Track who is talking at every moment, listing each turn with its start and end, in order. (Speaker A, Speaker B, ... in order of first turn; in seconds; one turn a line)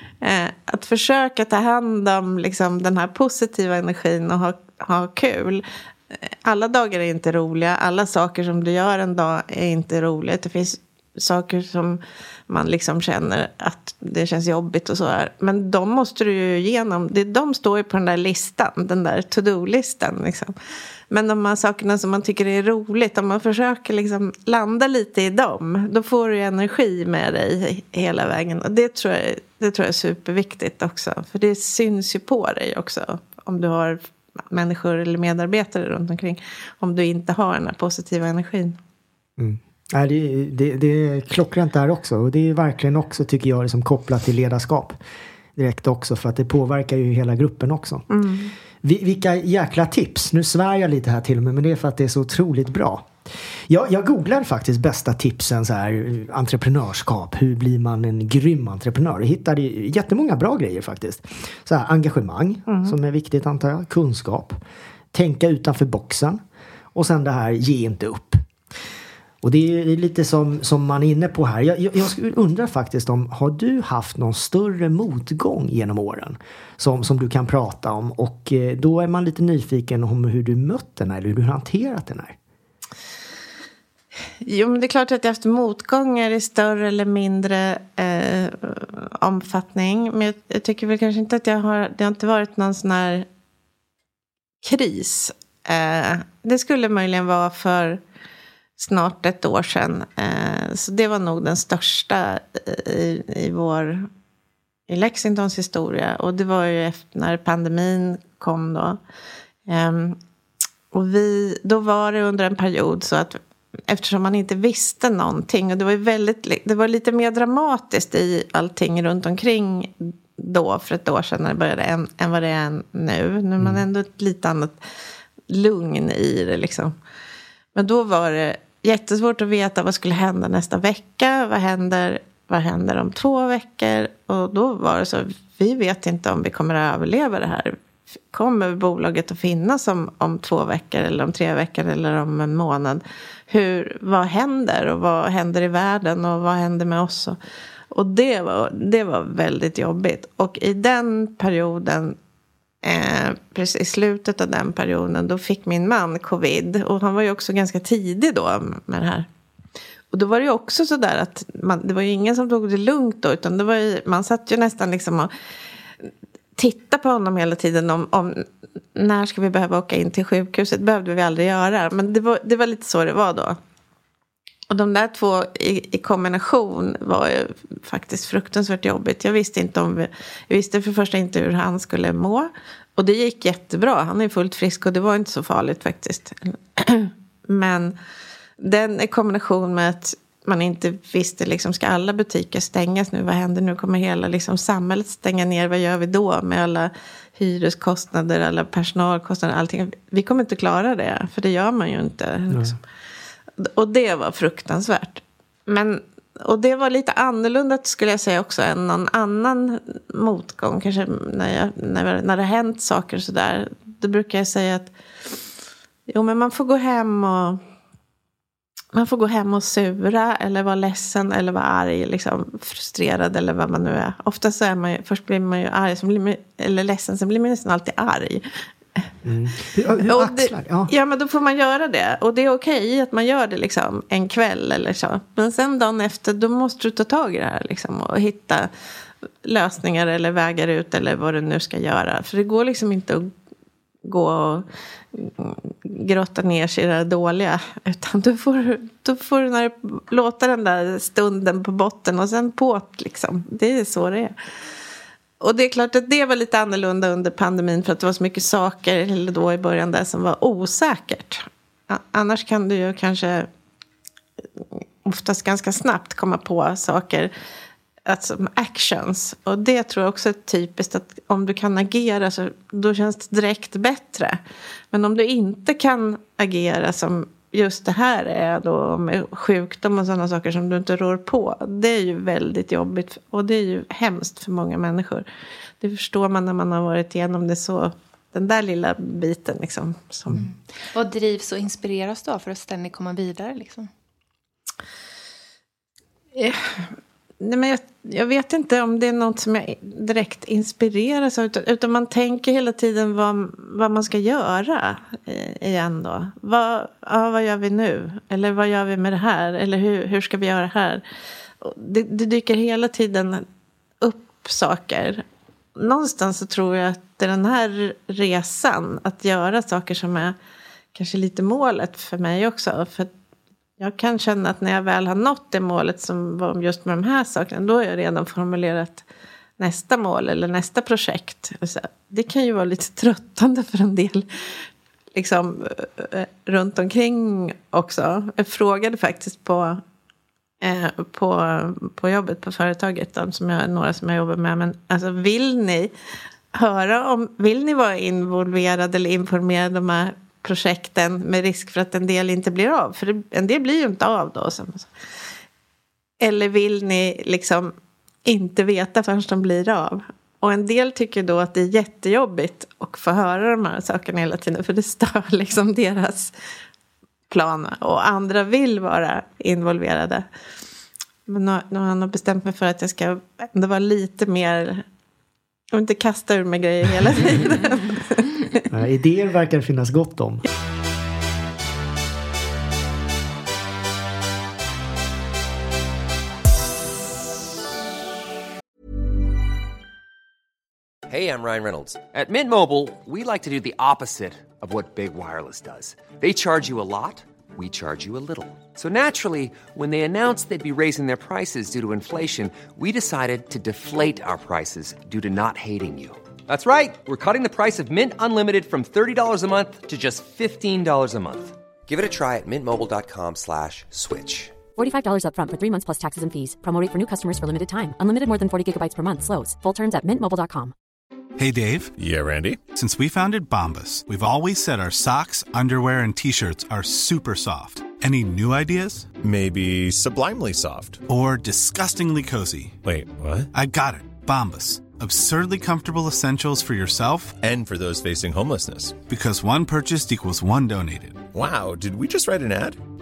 Speaker A: 0.2-20.5
Speaker A: 21.1-34.0
Speaker A: 34.5-38.8
Speaker B: 39.4-45.0
Speaker B: 45.5-48.0
Speaker A: 48.1-48.5
Speaker B: 48.8-53.1
Speaker B: 53.7-64.6
Speaker A: 62.7-62.9
Speaker B: 65.1-66.4
Speaker B: 66.9-68.4
Speaker B: 69.4-82.3
Speaker A: 84.4-93.2
Speaker A: 94.6-98.0
Speaker A: 98.8-104.1
Speaker A: 104.9-109.0
Speaker A: 109.7-110.2
Speaker A: 110.9-124.8
Speaker A: 125.5-126.9
Speaker A: 127.7-137.8
Speaker A: 138.3-147.4
Speaker A: 147.9-152.2
Speaker A: 152.8-159.3
Speaker A: 160.1-165.3
Speaker A: 166.0-168.4
Speaker A: 168.9-173.6
Speaker A: 174.7-187.9
Speaker A: 188.6-202.8
Speaker B: 202.5-202.7
Speaker A: 203.6-214.9
Speaker A: 216.1-217.6
Speaker A: 218.9-228.4
Speaker B: 229.2-230.9
Speaker A: 230.1-238.7
Speaker A: 239.4-243.3
Speaker A: 244.1-254.3
Speaker A: 255.4-263.5
Speaker A: 265.0-267.3
Speaker A: 268.1-274.4
Speaker A: 274.9-285.2
Speaker A: 285.8-290.4
Speaker C: 290.3-293.9
Speaker A: 296.3-311.0
Speaker A: 311.6-313.4
Speaker A: 314.0-315.2
Speaker A: 315.8-320.3
Speaker A: 320.9-323.1
Speaker A: 323.8-329.0
Speaker A: 329.6-334.2
Speaker A: 335.1-339.8
Speaker A: 340.6-345.9
Speaker A: 346.5-354.9
Speaker A: 356.2-357.7
Speaker A: 358.2-366.3
Speaker A: 367.3-370.2
Speaker A: 371.3-374.8
Speaker A: 375.7-378.3
Speaker B: 378.7-380.4
Speaker D: 391.1-414.6
Speaker E: 414.8-420.7
Speaker F: 421.4-421.9
Speaker G: 422.0-422.6
Speaker F: 422.7-429.1
Speaker G: 429.2-431.0
Speaker F: 431.1-432.8
Speaker G: 432.8-433.5
Speaker F: 433.5-437.4
Speaker G: 437.4-439.0
Speaker F: 439.1-441.3
Speaker G: 441.3-442.8